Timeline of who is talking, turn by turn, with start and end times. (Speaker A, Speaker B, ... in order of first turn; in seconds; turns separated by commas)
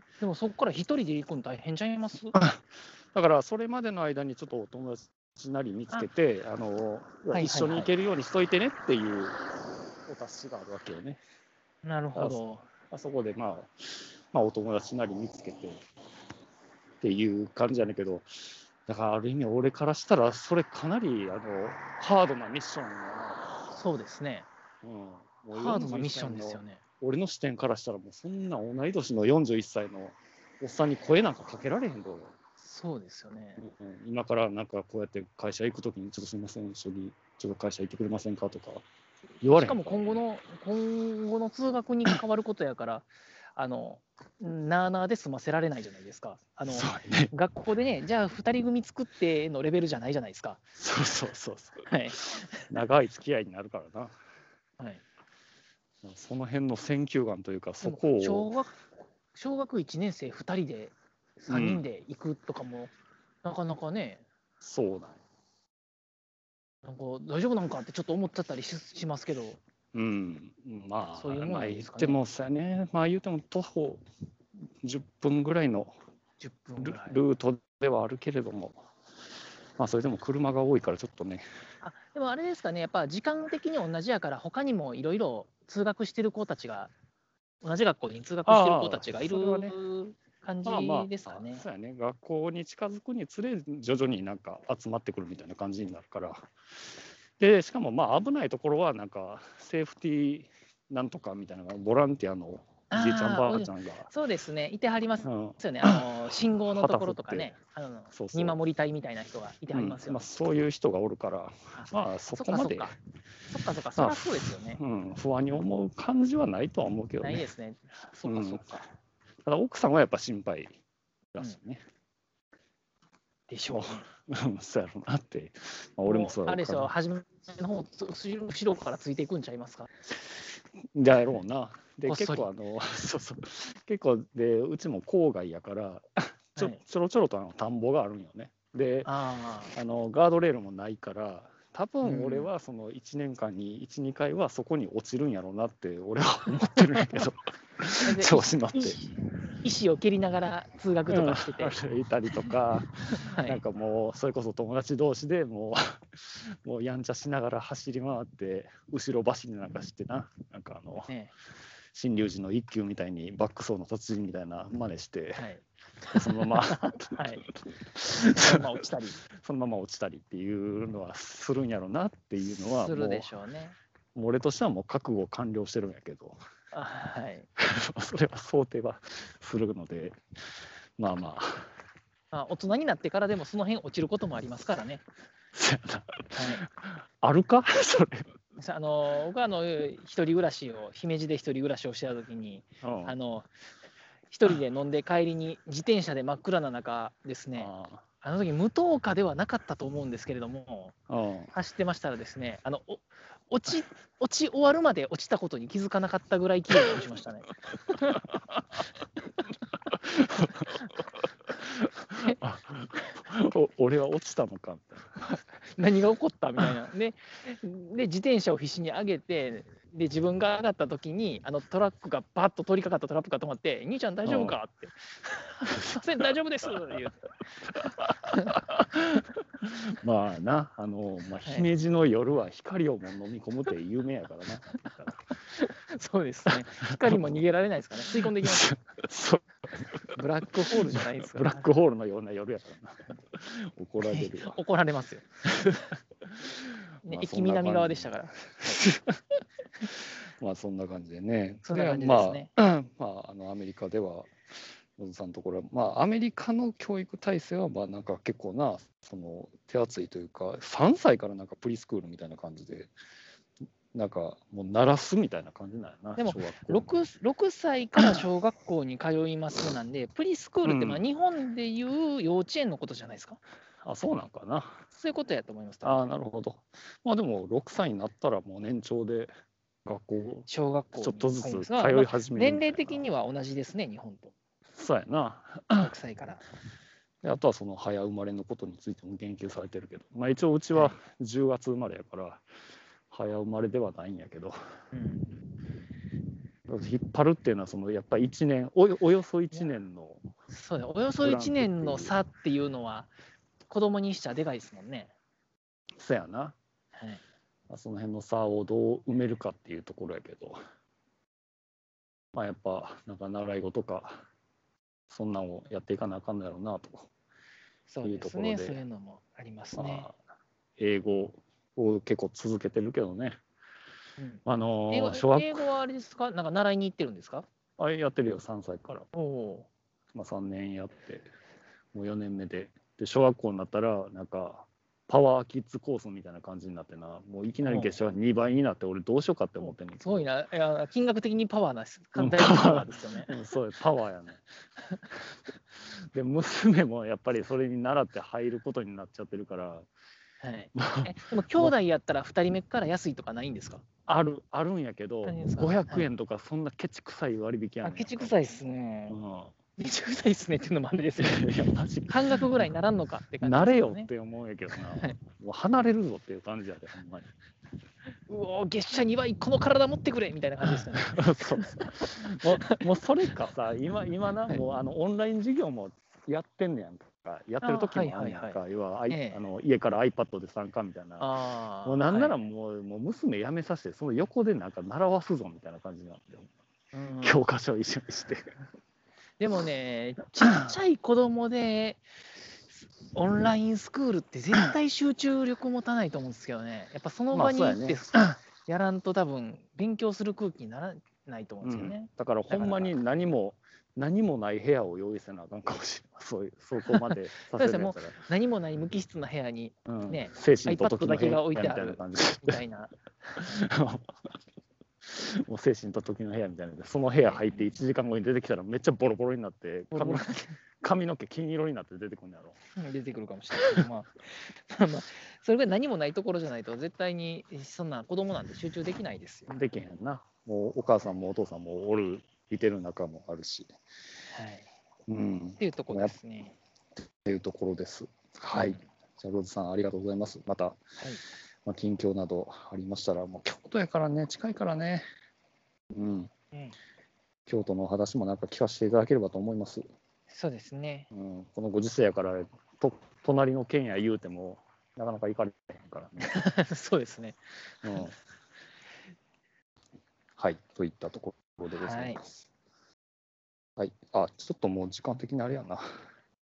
Speaker A: 0.2-2.4, Speaker B: 2.4-2.6, Speaker B: 3.1-9.4, Speaker A: 7.3-7.9, Speaker B: 10.1-11.2, Speaker A: 11.8-12.7, Speaker B: 12.2-15.8, Speaker B: 17.0-23.5, Speaker A: 23.7-24.5, Speaker B: 24.8-32.3, Speaker A: 25.5-26.8, Speaker A: 32.6-33.6, Speaker B: 33.6-38.9, Speaker B: 39.4-40.2, Speaker A: 39.5-50.6, Speaker B: 46.7-47.3, Speaker B: 50.8-54.1, Speaker A: 51.9-52.7, Speaker B: 56.0-58.5, Speaker A: 57.8-58.8, Speaker A: 59.3-62.9, Speaker B: 61.5-61.9, Speaker A: 63.4-64.2, Speaker B: 64.6-65.2, Speaker A: 66.8-69.6, Speaker B: 69.9-74.0, Speaker A: 71.2-72.2, Speaker B: 74.8-75.9, Speaker A: 76.4-77.2, Speaker B: 76.8-78.8, Speaker B: 79.8-81.5, Speaker A: 81.8-86.9, Speaker A: 87.6-91.6, Speaker B: 88.5-89.8, Speaker B: 90.7-96.5, Speaker B: 97.4-104.1, Speaker A: 102.9-110.2, Speaker B: 105.2-106.1, Speaker B: 106.7-107.5, Speaker B: 108.1-108.6, Speaker B: 109.7-113.0, Speaker A: 111.7-113.0, Speaker A: 113.5-114.8, Speaker B: 114.0-117.5, Speaker A: 117.2-118.9, Speaker B: 118.3-118.7, Speaker B: 119.4-120.8, Speaker B: 121.3-121.8, Speaker A: 123.5-124.0, Speaker B: 123.7-126.9, Speaker A: 126.0-129.9, Speaker B: 130.9-139.1, Speaker A: 132.1-132.5, Speaker A: 139.1-139.7, Speaker B: 139.7-149.0, Speaker A: 142.0-142.5, Speaker A: 146.9-147.2, Speaker A: 148.0-151.8, Speaker B: 151.1-161.1, Speaker A: 153.1-153.6, Speaker A: 161.1-161.3, Speaker B: 161.9-165.5, Speaker A: 165.4-167.4, Speaker B: 166.1-168.7, Speaker A: 168.1-169.2, Speaker B: 169.4-173.3, Speaker A: 172.5-173.8, Speaker B: 174.2-176.4, Speaker A: 176.7-177.5, Speaker B: 177.6-180.2, Speaker B: 181.0-181.7, Speaker A: 182.3-185.0, Speaker B: 185.5-188.3, Speaker A: 186.3-186.7, Speaker A: 188.6-193.5, Speaker B: 192.8-193.2, Speaker A: 194.3-197.7, Speaker B: 197.6-198.0, Speaker A: 198.2-200.9, Speaker B: 201.1-201.5, Speaker A: 201.5-208.2, Speaker B: 209.9-210.8, Speaker B: 211.6-215.2, Speaker A: 215.2-227.2, Speaker B: 224.2-224.6, Speaker B: 225.7-226.0, Speaker B: 227.8-235.2, Speaker A: 235.6-238.7, Speaker B: 238.2-240.2, Speaker A: 240.2-241.7, Speaker B: 240.7-244.6, Speaker A: 244.0-245.3, Speaker B: 247.0-249.2, Speaker A: 247.0-248.8, Speaker B: 249.8-254.4, Speaker A: 251.7-252.5, Speaker B: 255.0-262.9, Speaker B: 263.9-266.9, Speaker A: 266.2-273.4, Speaker B: 270.6-271.1, Speaker B: 273.8-274.8, Speaker A: 274.9-276.0, Speaker B: 275.8-279.3, Speaker B: 279.9-283.1, Speaker A: 280.5-284.3, Speaker B: 284.7-285.9, Speaker A: 285.8-286.4, Speaker B: 287.2-292.4, Speaker B: 293.1-294.6, Speaker A: 294.9-295.3, Speaker B: 296.7-300.3, Speaker A: 300.5-303.1, Speaker B: 301.2-302.1, Speaker A: 303.7-305.1, Speaker B: 306.0-306.6, Speaker A: 307.0-307.2, Speaker B: 307.7-310.6, Speaker B: 312.3-314.2, Speaker B: 315.1-317.1, Speaker A: 317.9-320.1, Speaker B: 318.0-318.8, Speaker B: 319.8-320.1, Speaker B: 320.8-323.4, Speaker A: 324.2-327.4, Speaker B: 324.5-325.6, Speaker B: 327.8-329.1, Speaker A: 329.1-329.7, Speaker B: 330.1-331.3, Speaker B: 331.9-340.3, Speaker A: 337.6-337.9, Speaker A: 339.6-343.3, Speaker B: 342.2-344.4, Speaker B: 346.1-349.9, Speaker A: 350.4-353.9, Speaker B: 350.8-351.7, Speaker B: 354.1-358.4, Speaker A: 355.2-356.1, Speaker A: 357.8-359.2, Speaker B: 359.1-359.5, Speaker A: 359.8-361.4, Speaker B: 361.2-362.7, Speaker A: 362.1-364.1, Speaker B: 363.4-367.3, Speaker A: 368.3-372.8, Speaker B: 370.9-381.3, Speaker A: 377.6-378.6, Speaker A: 379.1-379.4, Speaker A: 381.2-382.4, Speaker B: 381.9-386.5, Speaker A: 386.9-387.4, Speaker B: 387.2-388.5, Speaker A: 389.4-392.0, Speaker A: 393.1-402.9, Speaker B: 397.3-398.0, Speaker B: 401.6-408.2, Speaker A: 406.9-413.6, Speaker B: 409.9-412.6, Speaker B: 413.4-414.2, Speaker B: 415.0-422.6, Speaker A: 419.9-420.6, Speaker A: 422.8-429.5, Speaker B: 429.5-433.7, Speaker A: 434.3-434.7, Speaker B: 435.1-436.1, Speaker A: 435.6-436.6, Speaker B: 437.2-440.8, Speaker A: 438.5-438.8, Speaker B: 441.7-445.1, Speaker B: 445.9-446.3, Speaker B: 447.5-449.9, Speaker A: 450.3-451.1, Speaker B: 451.1-456.3, Speaker A: 456.2-457.4, Speaker B: 457.8-458.1, Speaker B: 460.4-462.3, Speaker A: 461.7-462.2, Speaker B: 463.8-466.0